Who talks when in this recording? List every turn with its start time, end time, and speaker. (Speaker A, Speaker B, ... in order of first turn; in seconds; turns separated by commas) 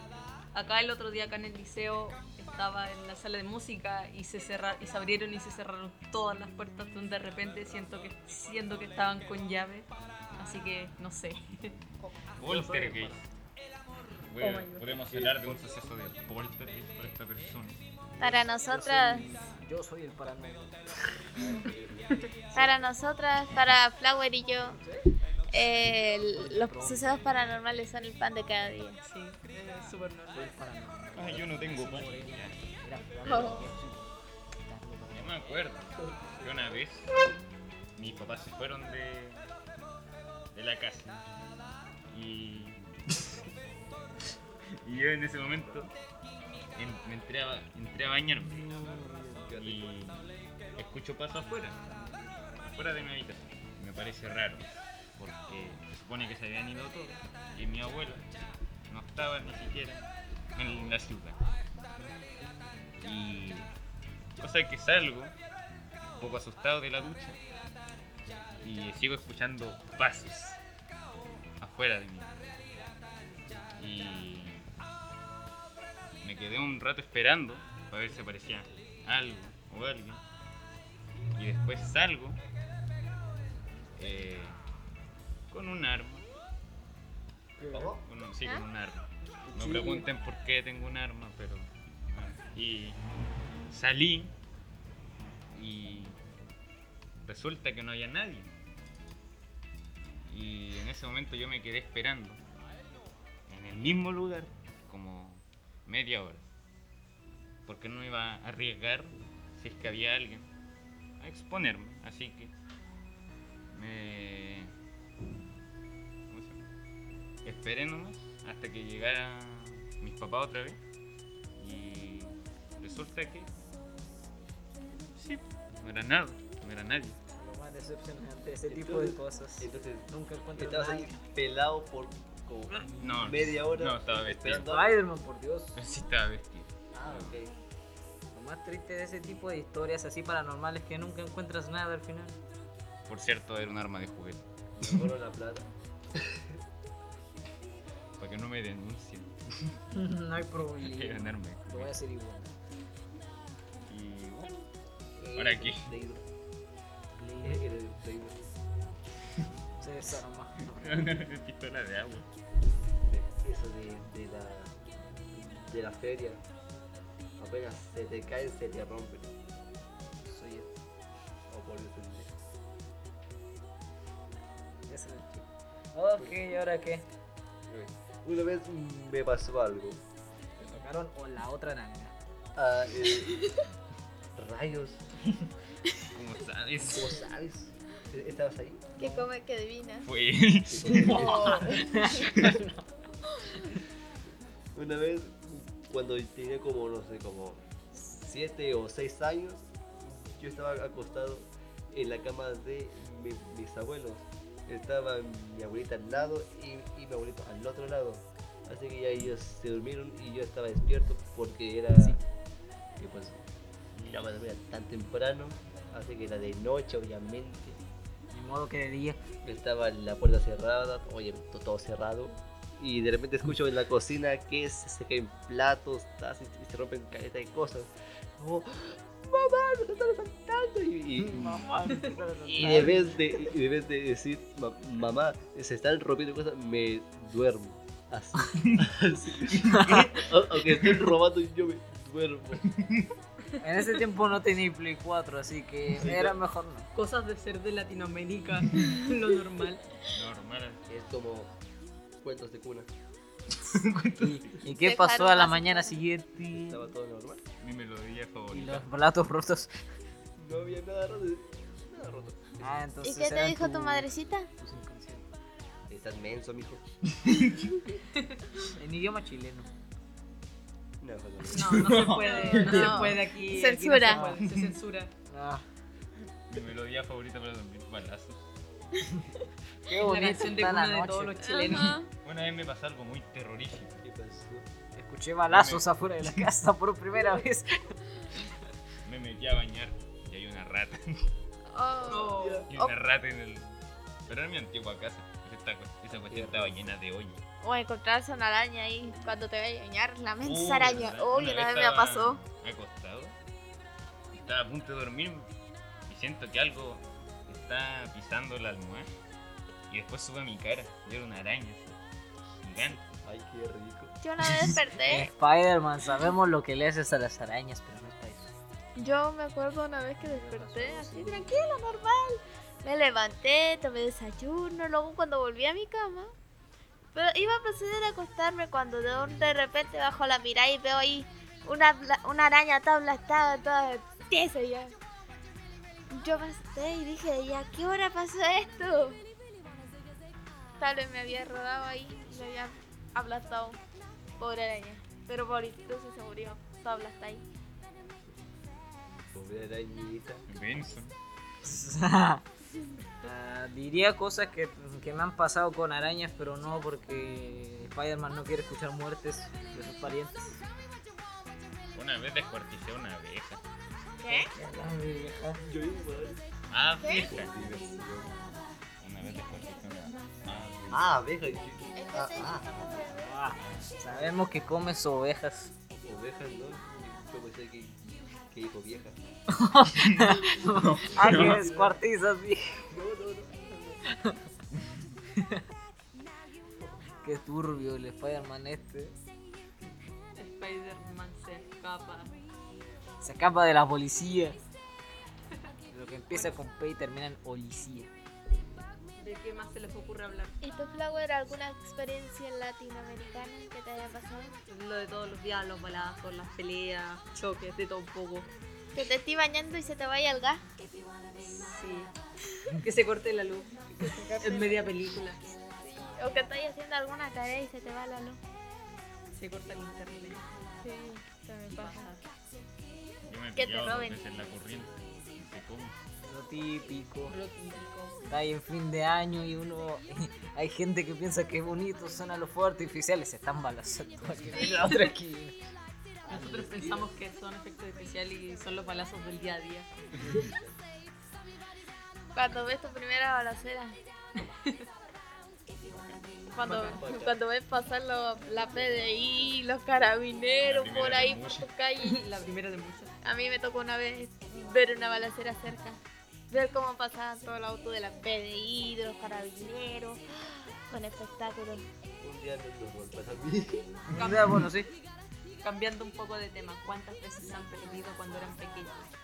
Speaker A: 0.5-11.7, Speaker B: 12.4-13.2, Speaker C: 12.4-13.2, Speaker B: 14.3-17.8, Speaker A: 14.4-14.9, Speaker D: 15.1-15.6, Speaker C: 18.2-21.4, Speaker E: 18.2-19.3, Speaker D: 21.4-22.2, Speaker E: 22.5-24.8, Speaker C: 24.6-25.1, Speaker E: 25.5-29.0, Speaker C: 26.3-27.6, Speaker A: 29.0-30.5, Speaker C: 30.3-35.4, Speaker B: 31.1-32.6, Speaker B: 33.2-33.6, Speaker E: 33.3-33.7, Speaker B: 35.1-37.1, Speaker D: 36.0-36.8, Speaker B: 38.0-39.5, Speaker B: 40.5-41.2, Speaker B: 42.1-42.8, Speaker B: 44.8-45.9, Speaker B: 46.8-48.7, Speaker C: 48.7-49.3, Speaker D: 49.3-49.9, Speaker B: 49.6-51.8, Speaker C: 52.0-52.2, Speaker B: 52.6-58.3, Speaker B: 58.9-61.4, Speaker B: 63.0-63.7, Speaker B: 64.4-65.3, Speaker B: 66.2-67.4, Speaker B: 68.6-70.6, Speaker B: 71.6-72.5, Speaker B: 73.8-74.7, Speaker B: 76.2-80.2, Speaker B: 81.3-82.4, Speaker B: 84.0-84.6, Speaker B: 85.5-86.3, Speaker C: 87.6-87.9, Speaker D: 87.7-88.0, Speaker B: 88.0-93.0, Speaker C: 89.5-90.1, Speaker B: 93.7-94.3, Speaker B: 95.5-96.2, Speaker B: 97.2-98.5, Speaker B: 100.3-102.4, Speaker B: 103.5-106.5, Speaker B: 107.7-110.5, Speaker B: 111.2-112.5, Speaker B: 113.7-114.7, Speaker B: 116.3-116.7, Speaker B: 117.4-120.8, Speaker B: 121.6-123.5, Speaker B: 125.1-127.2, Speaker C: 127.3-131.1, Speaker D: 128.7-135.0, Speaker C: 132.7-133.0, Speaker B: 133.0-134.7, Speaker C: 134.7-135.8, Speaker B: 135.8-137.4, Speaker D: 136.9-137.5, Speaker C: 138.3-142.4, Speaker B: 143.1-144.4, Speaker D: 144.8-146.6, Speaker B: 148.2-149.7, Speaker C: 149.9-152.6, Speaker B: 150.8-151.9, Speaker B: 153.9-154.7, Speaker D: 155.2-156.2, Speaker B: 155.3-155.9, Speaker C: 157.2-157.6, Speaker D: 157.4-158.4, Speaker C: 159.8-161.1, Speaker B: 160.7-162.3, Speaker D: 163.0-164.8, Speaker D: 165.3-166.4, Speaker D: 167.4-169.3, Speaker C: 170.2-170.7, Speaker D: 171.5-172.3, Speaker C: 174.9-177.1, Speaker D: 176.2-176.4, Speaker D: 177.7-180.0, Speaker C: 180.6-182.1, Speaker D: 182.6-183.6, Speaker D: 184.3-185.1, Speaker B: 186.1-187.2, Speaker D: 186.9-189.1, Speaker E: 189.0-190.1, Speaker B: 190.1-192.6, Speaker D: 190.7-191.8, Speaker C: 190.9-192.8, Speaker E: 191.1-191.8, Speaker D: 194.7-212.2, Speaker D: 213.0-213.4, Speaker D: 214.0-217.8, Speaker C: 218.3-219.2, Speaker D: 219.4-231.7, Speaker C: 231.2-233.5, Speaker D: 232.5-242.7, Speaker B: 239.6-240.1, Speaker C: 239.7-240.1, Speaker B: 242.6-243.1, Speaker C: 243.6-246.9, Speaker D: 246.0-246.4, Speaker A: 246.9-249.8, Speaker B: 250.1-250.8, Speaker D: 250.9-251.5, Speaker D: 252.2-252.9, Speaker B: 253.6-254.6, Speaker C: 254.2-256.8, Speaker E: 254.7-256.0, Speaker D: 256.6-257.4, Speaker B: 257.6-258.9, Speaker C: 258.5-259.7, Speaker D: 260.4-262.8, Speaker C: 262.6-265.3, Speaker E: 263.0-264.5, Speaker D: 265.9-266.8, Speaker B: 267.3-267.7, Speaker C: 268.7-269.7, Speaker D: 271.0-272.1, Speaker A: 271.5-275.1, Speaker B: 271.8-272.2, Speaker E: 272.2-274.3, Speaker C: 274.1-274.4, Speaker C: 275.3-275.6, Speaker B: 276.5-278.5, Speaker C: 279.9-281.8, Speaker A: 280.0-282.0, Speaker E: 281.4-282.1, Speaker B: 282.2-284.1, Speaker D: 284.0-284.7, Speaker C: 285.0-287.9, Speaker B: 285.5-286.5, Speaker B: 289.0-291.3, Speaker E: 291.7-292.9, Speaker D: 292.1-292.7, Speaker A: 292.1-292.7, Speaker B: 292.7-297.4, Speaker D: 296.2-296.9, Speaker E: 297.6-302.4, Speaker B: 300.4-303.4, Speaker B: 304.3-305.5, Speaker B: 306.1-309.1, Speaker B: 309.9-313.1, Speaker D: 313.2-314.1, Speaker E: 314.2-315.3, Speaker C: 315.0-318.6, Speaker E: 319.0-326.3, Speaker C: 320.2-321.6, Speaker E: 327.1-334.9, Speaker E: 336.1-339.2, Speaker E: 340.8-343.8, Speaker E: 344.4-347.4, Speaker D: 349.3-350.4, Speaker B: 350.5-351.1, Speaker C: 351.6-352.4, Speaker C: 353.2-360.6, Speaker B: 361.9-363.6, Speaker E: 364.2-364.5, Speaker C: 364.3-365.6, Speaker D: 365.6-366.4, Speaker B: 366.7-367.7, Speaker E: 367.0-367.3, Speaker D: 367.1-368.4, Speaker B: 369.0-371.1, Speaker D: 370.9-373.1, Speaker E: 372.0-373.5, Speaker C: 373.2-375.7, Speaker B: 373.6-374.0, Speaker D: 374.1-374.4, Speaker D: 376.0-378.0, Speaker D: 378.5-379.2, Speaker C: 379.5-382.9, Speaker B: 380.0-381.7, Speaker D: 381.2-382.0, Speaker D: 382.9-384.0, Speaker C: 385.4-385.6, Speaker C: 387.2-389.2, Speaker A: 390.4-392.3, Speaker C: 393.2-394.6, Speaker C: 395.9-398.1, Speaker A: 396.3-396.6, Speaker A: 399.2-400.6, Speaker E: 400.6-404.6, Speaker A: 404.7-408.5, Speaker E: 408.9-410.6, Speaker A: 411.4-412.1, Speaker A: 412.7-415.4, Speaker E: 414.0-414.9, Speaker E: 415.8-418.4, Speaker A: 419.3-420.4, Speaker E: 420.8-422.1, Speaker A: 421.7-422.2, Speaker B: 423.3-426.0, Speaker E: 423.6-424.2, Speaker C: 426.2-427.4, Speaker A: 427.3-428.2, Speaker C: 428.3-435.6, Speaker E: 434.5-434.9, Speaker D: 436.3-437.1, Speaker A: 436.3-439.9, Speaker C: 436.3-436.6, Speaker D: 440.2-440.8, Speaker E: 442.3-444.0, Speaker A: 444.4-444.8, Speaker B: 445.9-446.2, Speaker E: 446.5-452.2, Speaker A: 446.6-447.1, Speaker D: 446.7-447.4, Speaker D: 448.6-449.6, Speaker B: 450.6-451.7, Speaker A: 452.0-453.1, Speaker E: 453.2-461.9, Speaker D: 462.2-464.0, Speaker B: 464.1-464.4, Speaker A: 464.1-464.7, Speaker C: 464.1-464.9, Speaker A: 465.6-469.1